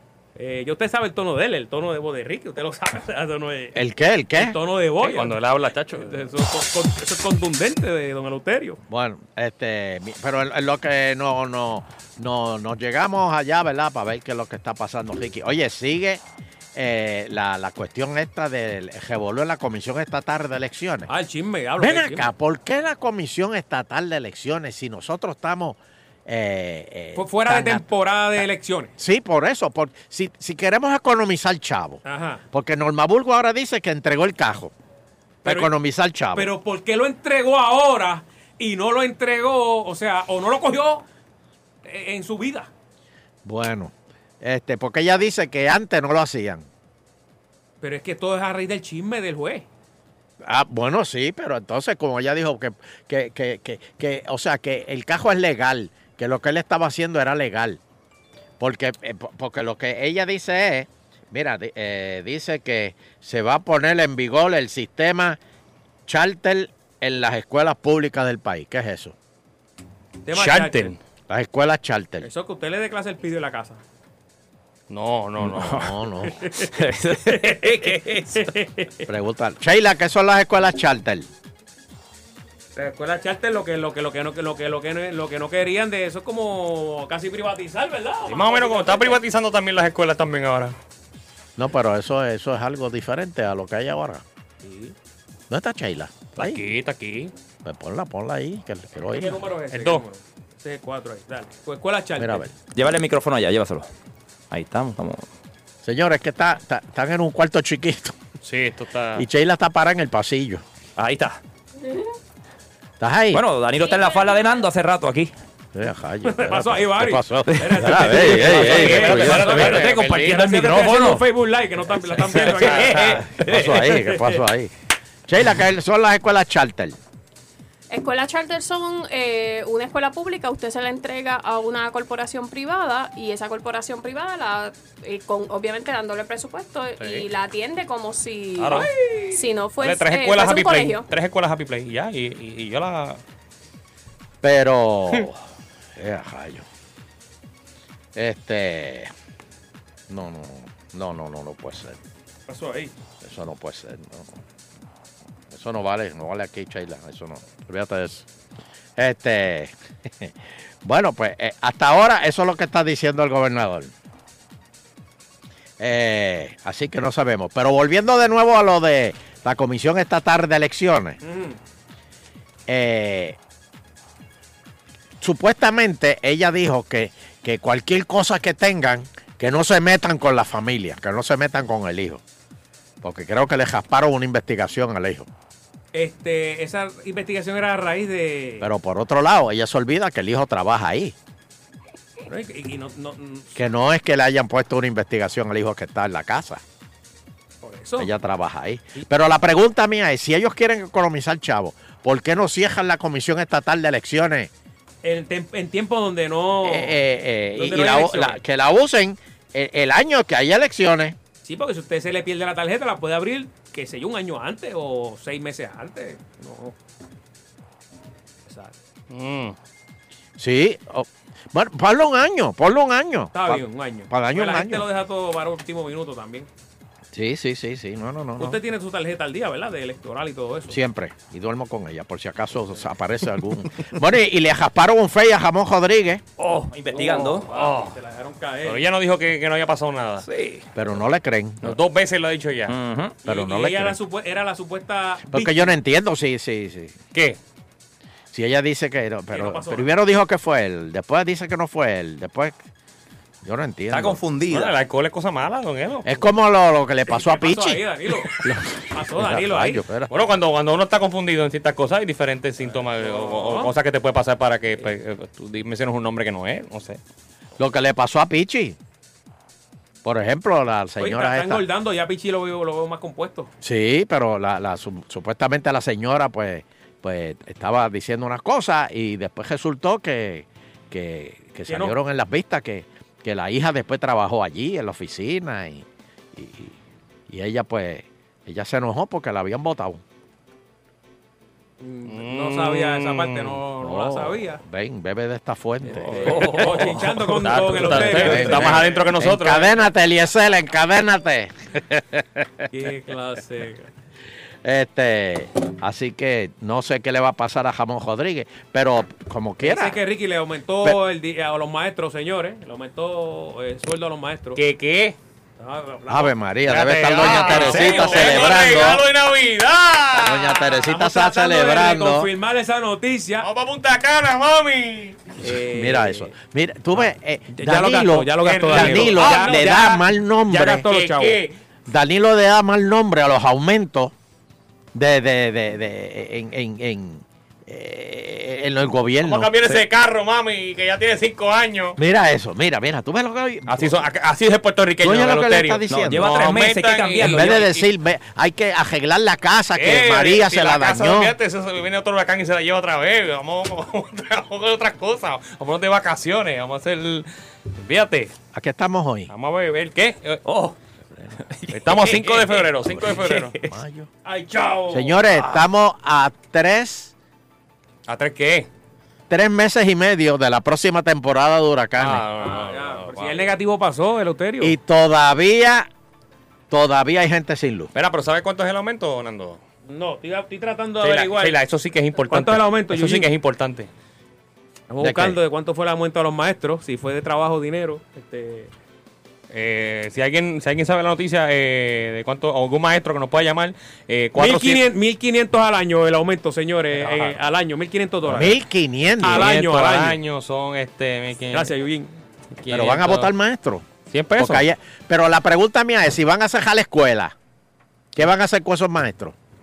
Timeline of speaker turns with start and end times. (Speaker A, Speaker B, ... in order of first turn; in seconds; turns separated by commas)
Speaker A: 0.4-3.8, Speaker B: 3.7-4.6, Speaker A: 4.3-5.4, Speaker C: 5.0-6.3, Speaker A: 5.9-8.8, Speaker B: 8.9-16.2, Speaker B: 16.8-21.1, Speaker A: 21.1-22.3, Speaker B: 21.8-27.9, Speaker A: 27.1-28.9, Speaker B: 29.0-34.7, Speaker A: 32.0-32.4, Speaker B: 35.4-36.5, Speaker A: 35.5-35.7, Speaker A: 36.4-41.0, Speaker A: 41.9-42.7, Speaker B: 43.5-46.7, Speaker A: 47.8-49.7, Speaker B: 50.4-57.8, Speaker B: 58.6-65.4, Speaker B: 66.1-69.2, Speaker A: 70.3-70.9, Speaker C: 70.3-71.0, Speaker B: 71.3-72.3, Speaker A: 72.2-73.8, Speaker C: 74.9-75.9, Speaker D: 75.5-75.9, Speaker B: 75.6-76.4, Speaker A: 76.4-79.1, Speaker D: 76.8-78.4, Speaker B: 79.1-81.3, Speaker A: 82.8-89.2, Speaker C: 88.3-90.8, Speaker B: 91.6-94.2, Speaker A: 94.6-95.0, Speaker B: 95.5-96.6, Speaker C: 96.4-97.3, Speaker B: 97.6-99.5, Speaker A: 99.1-102.5, Speaker C: 99.7-100.0, Speaker B: 102.2-102.5, Speaker D: 102.7-103.9, Speaker D: 104.5-105.3, Speaker B: 105.8-108.2, Speaker C: 108.4-109.2, Speaker B: 109.2-110.6, Speaker D: 111.0-111.4, Speaker B: 113.0-113.4, Speaker D: 113.3-115.3, Speaker E: 113.9-114.4, Speaker B: 115.7-119.9, Speaker A: 116.2-124.4, Speaker D: 117.7-121.2, Speaker C: 118.4-120.7, Speaker C: 122.4-123.0, Speaker D: 122.5-123.8, Speaker B: 122.8-124.7, Speaker B: 125.3-127.0, Speaker E: 127.9-141.1, Speaker C: 137.0-137.3, Speaker C: 138.6-138.9, Speaker C: 139.8-143.2, Speaker B: 144.4-145.4, Speaker B: 146.0-146.6, Speaker B: 148.2-149.1, Speaker B: 150.1-152.0, Speaker A: 152.5-152.9, Speaker B: 153.2-154.4, Speaker B: 155.5-158.3, Speaker B: 159.0-163.9, Speaker B: 165.8-171.2, Speaker A: 171.2-171.6, Speaker B: 172.7-173.4, Speaker B: 175.2-182.2, Speaker B: 183.0-185.3, Speaker A: 185.9-188.7, Speaker B: 188.6-191.2, Speaker A: 192.3-193.6, Speaker B: 193.6-196.6, Speaker A: 197.6-198.1, Speaker B: 198.0-204.5, Speaker A: 205.0-207.0, Speaker B: 206.6-211.2, Speaker A: 207.6-208.4, Speaker A: 211.4-216.8, Speaker A: 218.5-218.8, Speaker C: 219.1-219.6, Speaker B: 220.4-224.9, Speaker A: 223.3-226.5, Speaker B: 227.1-228.6, Speaker A: 228.4-230.8, Speaker B: 230.7-236.2, Speaker D: 236.4-237.5, Speaker A: 236.9-238.8, Speaker C: 237.5-237.9, Speaker C: 238.7-240.3, Speaker B: 240.8-241.8, Speaker C: 241.6-242.8, Speaker D: 242.7-243.2, Speaker A: 243.3-245.8, Speaker B: 243.3-244.0, Speaker B: 245.3-247.0, Speaker B: 248.3-252.6, Speaker A: 249.3-249.9, Speaker B: 253.4-254.2, Speaker D: 253.9-254.8, Speaker C: 254.5-256.2, Speaker B: 256.1-257.8, Speaker A: 257.1-258.3, Speaker B: 258.4-260.2, Speaker A: 258.9-259.8, Speaker C: 260.1-267.0, Speaker A: 262.6-263.7, Speaker B: 267.6-268.8, Speaker B: 270.0-271.6, Speaker A: 271.0-273.5, Speaker B: 273.6-286.8, Speaker A: 281.7-281.9, Speaker B: 287.3-290.0, Speaker A: 291.8-294.6, Speaker C: 292.1-293.6, Speaker B: 293.8-296.4, Speaker A: 295.9-298.7, Speaker D: 296.4-296.9, Speaker C: 296.7-299.8, Speaker B: 298.1-301.5, Speaker A: 302.7-303.9, Speaker B: 304.6-310.0, Speaker A: 309.6-314.6, Speaker C: 314.6-315.2, Speaker A: 315.6-316.3, Speaker B: 316.1-319.1, Speaker C: 316.7-320.8, Speaker A: 317.3-318.7, Speaker B: 320.1-322.3, Speaker A: 320.9-323.5, Speaker C: 323.4-325.2, Speaker A: 325.4-326.3, Speaker B: 325.5-330.9, Speaker A: 327.0-331.4, Speaker C: 328.4-329.7, Speaker C: 330.8-331.6, Speaker B: 331.9-334.1, Speaker B: 334.9-339.6, Speaker C: 339.2-342.0, Speaker B: 342.0-344.0, Speaker C: 343.7-347.7, Speaker B: 345.0-346.3, Speaker D: 346.1-347.6, Speaker A: 346.9-347.5, Speaker B: 347.2-351.3, Speaker C: 349.8-358.3, Speaker B: 358.5-359.3, Speaker C: 359.3-360.4, Speaker D: 360.4-360.8, Speaker D: 361.6-363.6, Speaker C: 361.7-363.6, Speaker B: 362.9-364.1, Speaker A: 364.2-365.2, Speaker B: 364.9-367.1, Speaker C: 368.1-368.7, Speaker B: 369.3-372.2, Speaker C: 372.0-373.6, Speaker A: 372.4-374.8, Speaker B: 374.6-375.9, Speaker B: 376.7-377.9, Speaker C: 377.9-379.6, Speaker A: 379.9-381.6, Speaker C: 381.0-383.9, Speaker A: 382.3-383.3, Speaker A: 384.9-388.7, Speaker B: 385.0-385.4, Speaker C: 389.5-394.9, Speaker A: 394.4-398.6, Speaker B: 398.2-399.5, Speaker A: 399.2-400.2, Speaker C: 399.2-401.7, Speaker A: 401.5-402.1, Speaker C: 402.6-403.3, Speaker B: 402.7-403.9, Speaker C: 404.1-404.6, Speaker B: 404.4-407.4, Speaker B: 408.1-409.3